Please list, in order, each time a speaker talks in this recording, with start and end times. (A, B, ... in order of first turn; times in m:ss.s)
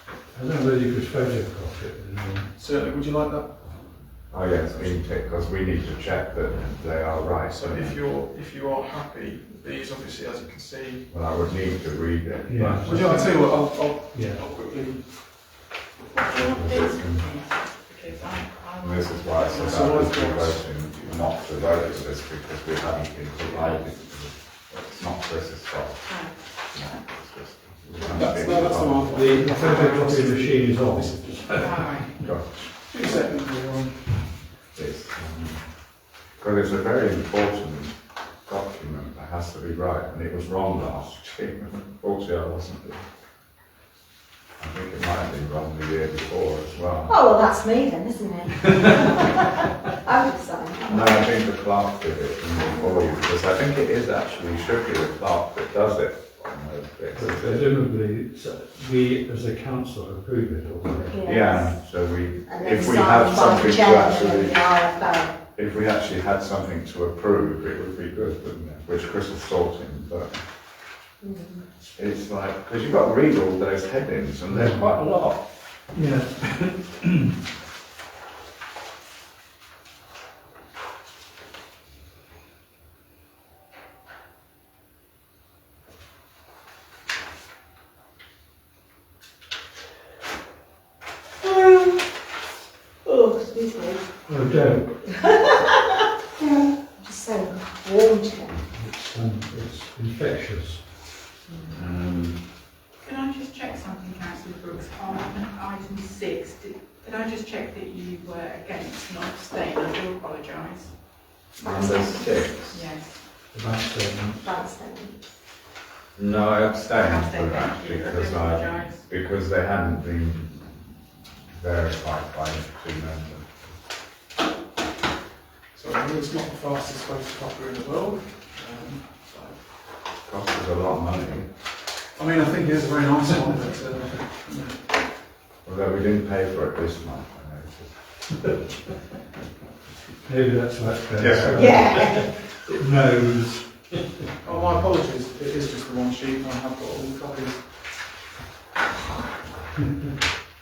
0:00.3-0:02.5 A
0:02.5-0:04.1 B
0:04.3-0:08.0 C
0:07.5-0:11.2 B
0:11.1-0:13.3 C
0:12.4-0:13.1 A
0:12.8-0:16.4 B
0:14.1-0:14.5 A
0:16.5-0:17.3 C
0:17.2-0:18.8 D
0:18.8-0:29.1 C
0:19.5-0:20.8 B
0:21.5-0:22.0 B
0:28.1-0:31.6 B
0:29.1-0:32.0 A
0:31.7-0:32.1 D
0:32.2-0:32.7 C
0:32.8-0:34.3 B
0:34.7-0:43.0 C
0:44.6-0:47.1 C
0:47.1-0:49.4 E
0:50.0-0:51.2 E
0:50.9-0:57.6 C
0:52.6-0:52.9 E
0:57.1-1:01.2 A
1:01.1-1:01.7 E
1:01.2-1:04.6 C
1:02.5-1:05.3 E
1:05.5-1:10.3 C
1:11.2-1:11.6 E
1:12.0-1:15.4 C
1:14.5-1:15.0 A
1:15.9-1:17.3 A
1:31.4-1:32.0 E
1:33.0-1:34.0 E
1:34.3-1:35.2 A
1:36.4-1:38.6 E
1:38.7-1:40.9 A
1:41.5-1:41.8 E
1:41.7-1:42.3 C
1:43.0-1:50.9 D
1:51.6-1:52.8 C
1:52.8-1:53.1 D
1:53.5-1:54.4 A
1:54.4-1:55.2 E
1:56.2-2:00.9 C
1:57.6-1:58.9 D
2:01.5-2:03.6 C
2:05.7-2:09.6 B
2:10.2-2:11.4 C
2:12.1-2:14.8 B
2:15.6-2:17.9 C
2:20.2-2:24.3 A
2:21.2-2:21.7 C
2:21.5-2:22.2 E
2:24.4-2:27.8 B